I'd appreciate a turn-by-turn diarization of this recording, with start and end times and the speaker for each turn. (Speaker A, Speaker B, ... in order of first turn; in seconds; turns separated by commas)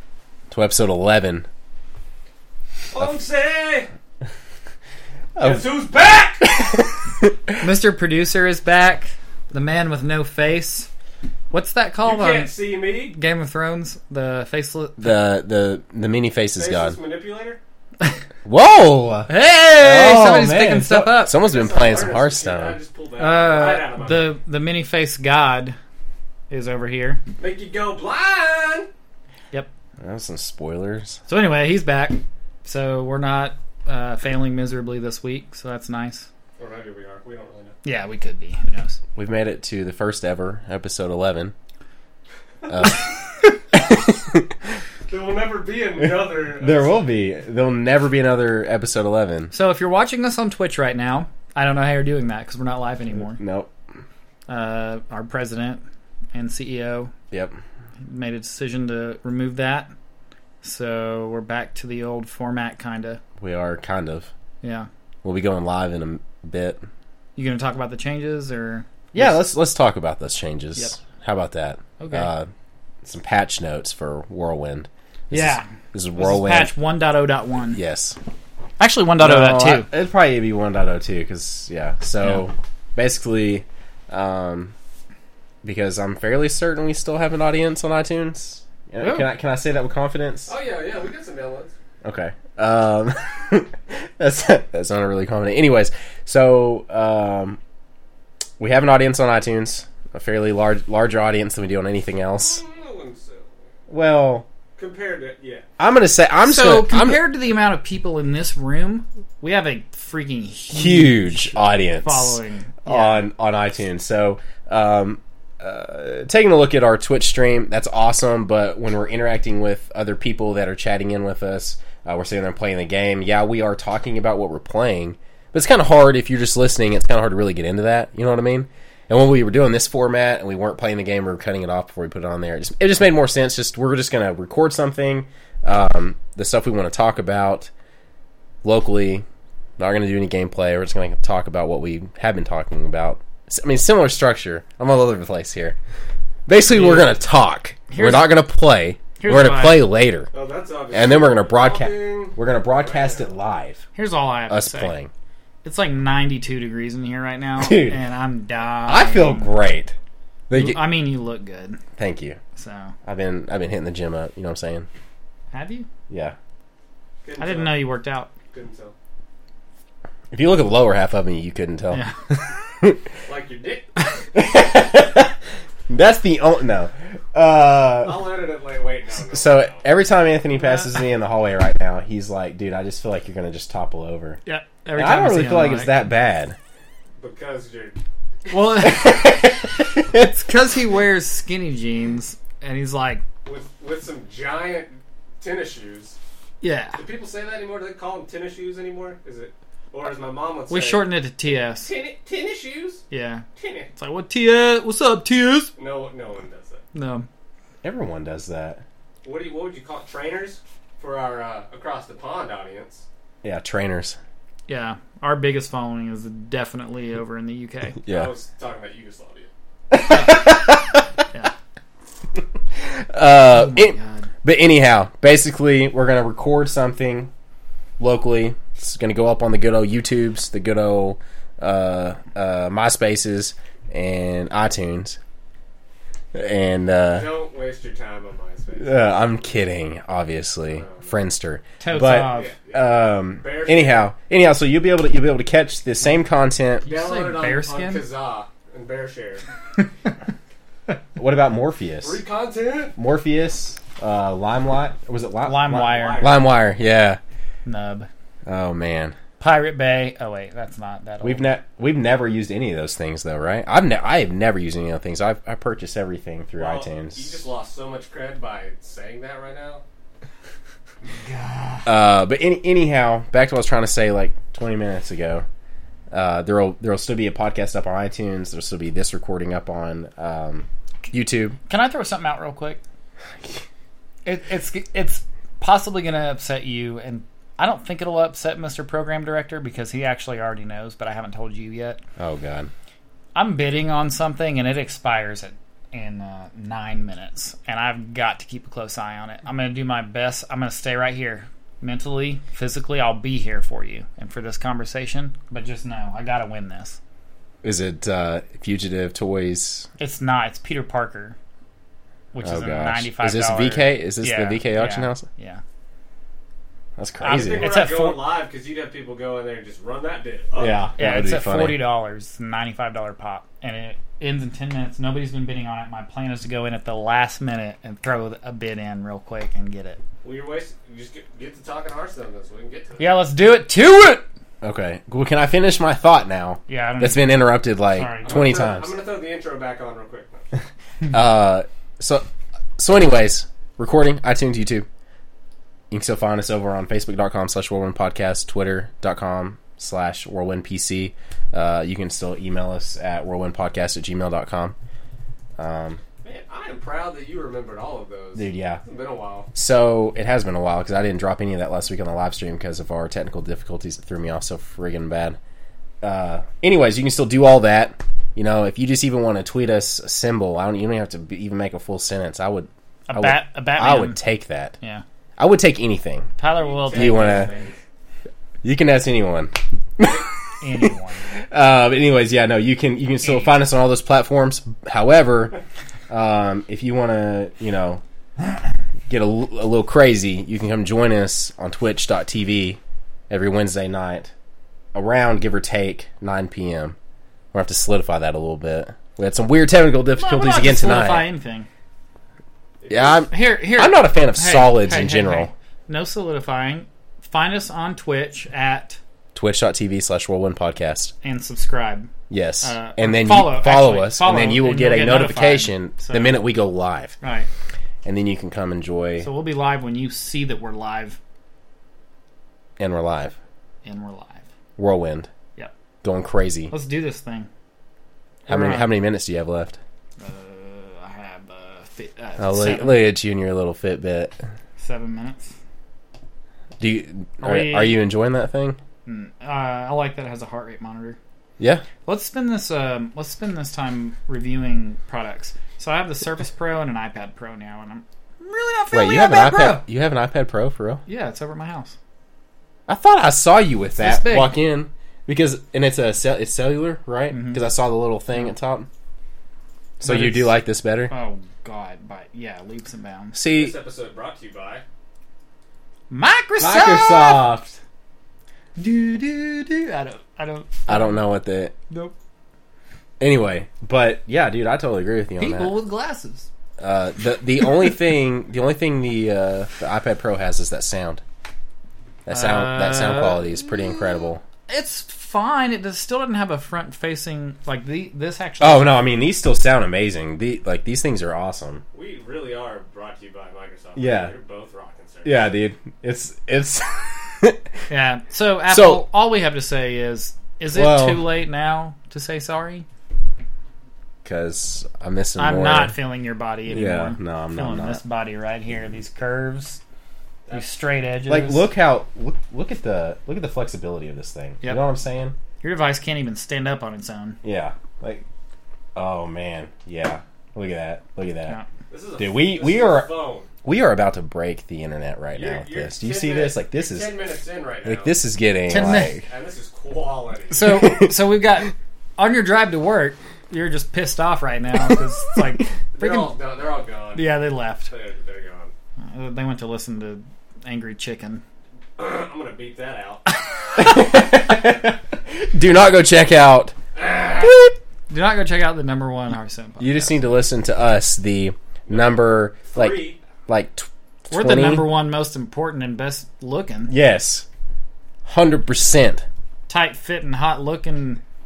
Speaker A: 0.5-1.5, Speaker B: 2.9-3.9, Speaker A: 5.3-5.7, Speaker B: 5.4-6.8, Speaker A: 6.6-7.5, Speaker C: 7.6-10.9, Speaker C: 11.5-12.6, Speaker B: 12.0-13.2, Speaker C: 13.1-15.1, Speaker A: 15.0-17.0, Speaker B: 16.6-17.6, Speaker A: 18.4-22.8, Speaker C: 19.3-21.4, Speaker B: 21.3-24.3, Speaker C: 23.2-25.8, Speaker C: 26.5-27.2, Speaker B: 27.4-28.9, Speaker A: 30.0-31.2, Speaker C: 31.3-36.3, Speaker B: 36.6-37.8, Speaker C: 37.8-39.0, Speaker A: 39.1-41.5, Speaker A: 42.7-44.5, Speaker B: 45.1-47.1, Speaker A: 46.0-49.5, Speaker C: 49.5-53.4, Speaker A: 53.1-53.7, Speaker C: 54.5-55.8, Speaker C: 56.3-57.1, Speaker C: 58.0-59.9, Speaker C: 60.6-63.2, Speaker A: 63.4-64.3, Speaker C: 64.6-64.9, Speaker A: 65.2-66.8, Speaker C: 67.3-69.4, Speaker A: 69.1-72.5, Speaker C: 72.0-72.3, Speaker A: 73.0-76.7, Speaker C: 75.3-77.8, Speaker A: 77.7-78.2, Speaker C: 78.8-79.9, Speaker A: 79.2-84.7, Speaker A: 85.6-90.5, Speaker C: 89.0-89.3, Speaker B: 90.5-91.7, Speaker A: 92.0-97.6, Speaker A: 98.6-102.6, Speaker B: 102.4-103.7, Speaker A: 103.9-104.5, Speaker B: 104.8-105.6, Speaker A: 105.8-107.2, Speaker C: 106.4-113.2, Speaker A: 110.7-137.7, Speaker A: 138.6-139.2, Speaker A: 139.8-145.8, Speaker A: 146.5-150.3, Speaker C: 146.7-147.2, Speaker C: 147.9-148.3, Speaker C: 149.2-149.8, Speaker B: 150.3-153.3, Speaker A: 150.9-153.8, Speaker C: 153.9-154.9, Speaker A: 154.5-155.1, Speaker C: 155.6-159.5, Speaker A: 157.6-158.0, Speaker A: 158.9-159.9, Speaker A: 160.5-160.8, Speaker C: 160.5-161.8, Speaker A: 162.0-162.4, Speaker C: 162.6-162.9, Speaker A: 163.0-164.9, Speaker C: 165.5-165.9, Speaker A: 166.1-166.3, Speaker B: 167.2-167.9, Speaker C: 167.4-168.3, Speaker B: 168.5-168.9, Speaker A: 170.3-173.0, Speaker B: 173.3-173.9, Speaker A: 174.3-175.3, Speaker A: 175.9-178.3, Speaker B: 178.0-179.8, Speaker A: 179.3-184.4, Speaker C: 180.6-180.9, Speaker C: 184.4-185.9, Speaker A: 184.9-186.6, Speaker B: 187.2-188.0, Speaker C: 188.5-193.2, Speaker A: 188.9-190.3, Speaker B: 193.4-196.2, Speaker C: 196.6-197.0, Speaker B: 197.0-203.0, Speaker C: 200.7-201.9, Speaker C: 203.1-203.4, Speaker B: 203.6-203.9, Speaker C: 203.9-205.7, Speaker B: 205.8-206.8, Speaker C: 206.9-207.3, Speaker A: 207.8-208.8, Speaker B: 209.2-213.0, Speaker A: 213.4-214.2, Speaker C: 214.7-218.0, Speaker A: 218.0-218.3, Speaker B: 218.1-219.5, Speaker A: 219.9-221.1, Speaker A: 222.8-227.3, Speaker C: 223.5-224.3, Speaker A: 228.0-235.2, Speaker A: 236.3-237.3, Speaker B: 237.1-239.0, Speaker A: 238.8-246.8, Speaker B: 240.6-241.1, Speaker C: 241.8-242.5, Speaker B: 242.2-244.1, Speaker C: 246.8-248.0, Speaker B: 246.9-249.4, Speaker A: 251.2-252.2, Speaker B: 252.0-252.9, Speaker A: 252.9-257.2, Speaker C: 255.4-256.3, Speaker B: 255.7-256.5, Speaker C: 257.6-258.1, Speaker A: 258.4-259.2, Speaker C: 259.4-261.4, Speaker A: 261.2-267.3, Speaker B: 266.6-269.8, Speaker C: 271.2-271.9, Speaker A: 271.9-275.4, Speaker A: 276.1-281.6, Speaker C: 281.7-282.8, Speaker C: 284.2-292.0, Speaker A: 292.2-292.7, Speaker C: 293.3-307.0, Speaker A: 307.6-309.9, Speaker C: 310.0-311.4, Speaker C: 312.3-315.6, Speaker A: 312.4-315.2, Speaker A: 317.0-317.7, Speaker B: 317.2-320.8, Speaker C: 317.2-318.3, Speaker A: 320.6-321.9, Speaker C: 321.0-330.0, Speaker B: 330.2-333.1, Speaker C: 333.0-334.2, Speaker A: 334.6-338.9, Speaker C: 336.7-338.5, Speaker B: 338.2-340.5, Speaker A: 341.1-342.2, Speaker A: 342.8-344.9, Speaker A: 345.9-354.8, Speaker A: 355.6-356.0, Speaker B: 356.2-359.5, Speaker A: 358.4-358.8, Speaker A: 359.5-365.4, Speaker A: 366.0-374.7, Speaker C: 373.1-374.2, Speaker A: 375.4-376.3, Speaker C: 376.4-377.7, Speaker B: 376.6-377.8, Speaker A: 376.9-377.5, Speaker A: 378.6-380.2, Speaker C: 380.6-381.2, Speaker A: 381.5-385.6, Speaker C: 383.2-383.6, Speaker A: 386.1-388.0, Speaker A: 389.1-392.8, Speaker A: 393.3-394.3, Speaker A: 394.9-396.9, Speaker A: 397.5-401.3, Speaker C: 400.1-401.7, Speaker B: 402.8-403.2, Speaker A: 402.9-405.5, Speaker C: 403.3-409.0, Speaker A: 409.3-411.1, Speaker C: 411.2-412.1, Speaker A: 412.3-417.1, Speaker C: 412.6-416.4, Speaker C: 417.2-417.5, Speaker A: 418.0-419.3, Speaker C: 419.2-421.2, Speaker A: 422.8-423.3, Speaker C: 423.8-424.4, Speaker A: 424.8-425.3, Speaker A: 426.0-426.7, Speaker C: 426.7-427.5, Speaker C: 428.5-428.9, Speaker A: 428.5-429.8, Speaker C: 430.2-433.0, Speaker A: 432.4-434.3, Speaker C: 434.8-435.5, Speaker A: 436.8-438.8, Speaker C: 437.4-438.0, Speaker C: 439.1-441.2, Speaker A: 441.6-441.9, Speaker C: 442.0-449.8, Speaker A: 448.9-451.0, Speaker C: 451.1-451.9, Speaker A: 452.9-458.9, Speaker C: 453.9-454.6, Speaker C: 457.3-457.7, Speaker A: 460.0-461.1, Speaker C: 460.0-463.4, Speaker A: 463.3-463.7, Speaker B: 463.5-464.8, Speaker C: 466.1-467.5, Speaker A: 466.6-467.8, Speaker C: 468.8-471.2, Speaker A: 470.9-471.7, Speaker A: 473.2-475.7, Speaker C: 475.4-476.5, Speaker A: 476.8-481.2, Speaker A: 482.2-484.4, Speaker C: 482.3-489.0, Speaker A: 488.6-491.8, Speaker B: 491.9-495.5, Speaker A: 493.9-494.3, Speaker A: 495.2-497.6, Speaker C: 497.9-502.8, Speaker A: 498.7-499.0, Speaker A: 500.7-501.3, Speaker A: 504.2-505.9, Speaker C: 505.4-509.8, Speaker A: 506.7-508.0, Speaker B: 510.4-510.7, Speaker C: 510.5-511.7, Speaker A: 511.3-515.3, Speaker C: 515.6-517.4, Speaker A: 517.4-518.2, Speaker A: 519.0-521.6, Speaker B: 521.9-523.5, Speaker A: 522.2-523.1, Speaker A: 523.6-527.2, Speaker B: 525.3-528.1, Speaker A: 527.8-529.2, Speaker C: 528.7-529.2, Speaker B: 528.8-530.6, Speaker C: 530.5-536.3, Speaker A: 530.6-531.2, Speaker B: 535.9-538.7, Speaker C: 537.1-537.9, Speaker C: 539.0-541.4, Speaker B: 542.0-543.3, Speaker A: 543.8-546.8, Speaker B: 547.0-547.5, Speaker A: 547.3-547.7, Speaker C: 548.1-550.2, Speaker A: 549.8-554.9, Speaker B: 551.9-553.2, Speaker C: 554.3-556.9, Speaker A: 556.9-557.5, Speaker A: 558.2-559.2, Speaker C: 559.7-561.2